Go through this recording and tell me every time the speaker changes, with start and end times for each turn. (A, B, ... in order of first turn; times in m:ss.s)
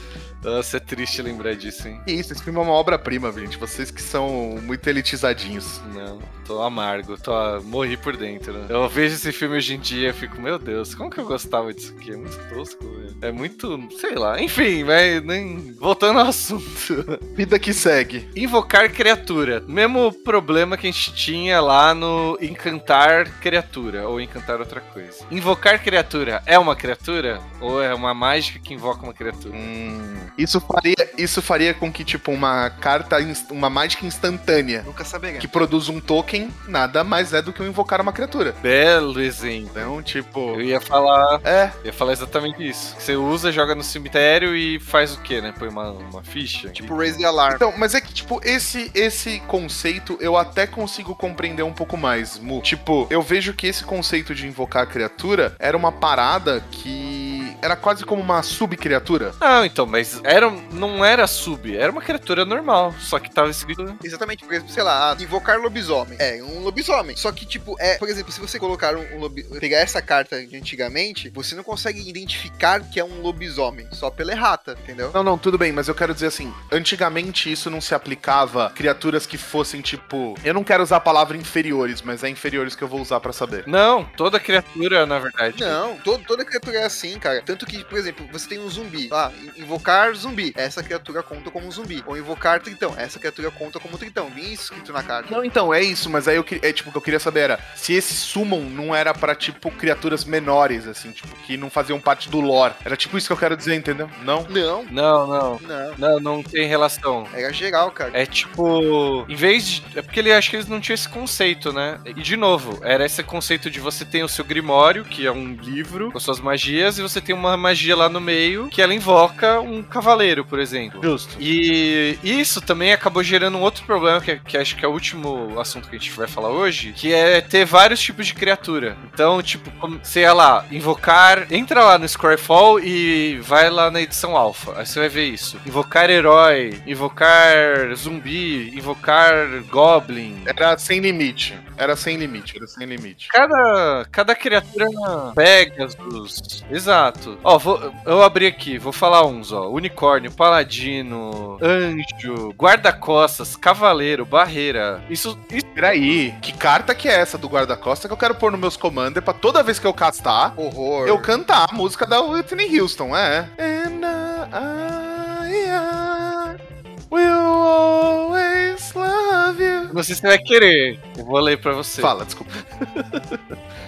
0:00.4-0:02.0 A
0:02.1-0:05.8 B
0:05.8-0:17.2 A
0:17.4-0:18.3 B
0:18.4-0:29.7 A
0:29.5-0:34.9 B
0:34.8-0:35.7 C
0:35.4-0:38.6 B
0:38.6-0:39.9 A
0:39.7-0:40.6 B
0:40.5-0:47.2 A
0:41.4-0:41.8 B
0:46.8-0:47.6 C
0:47.5-0:59.4 B
0:59.4-1:04.0 A
1:04.0-1:15.2 C
1:15.1-1:23.7 B
1:23.7-1:25.8 A
1:25.6-1:35.4 C
1:35.3-1:44.5 B
1:44.5-1:44.9 C
1:44.9-1:47.3 A
1:45.6-1:46.0 C
1:47.3-1:48.2 C
1:48.1-2:20.6 A
2:01.0-2:01.4 B
2:20.5-2:23.3 B
2:23.3-2:36.2 A
2:35.8-2:46.6 B
2:40.6-2:41.3 C
2:47.1-2:49.9 B
2:49.9-2:52.2 A
2:52.0-2:52.6 B
2:52.8-2:53.4 A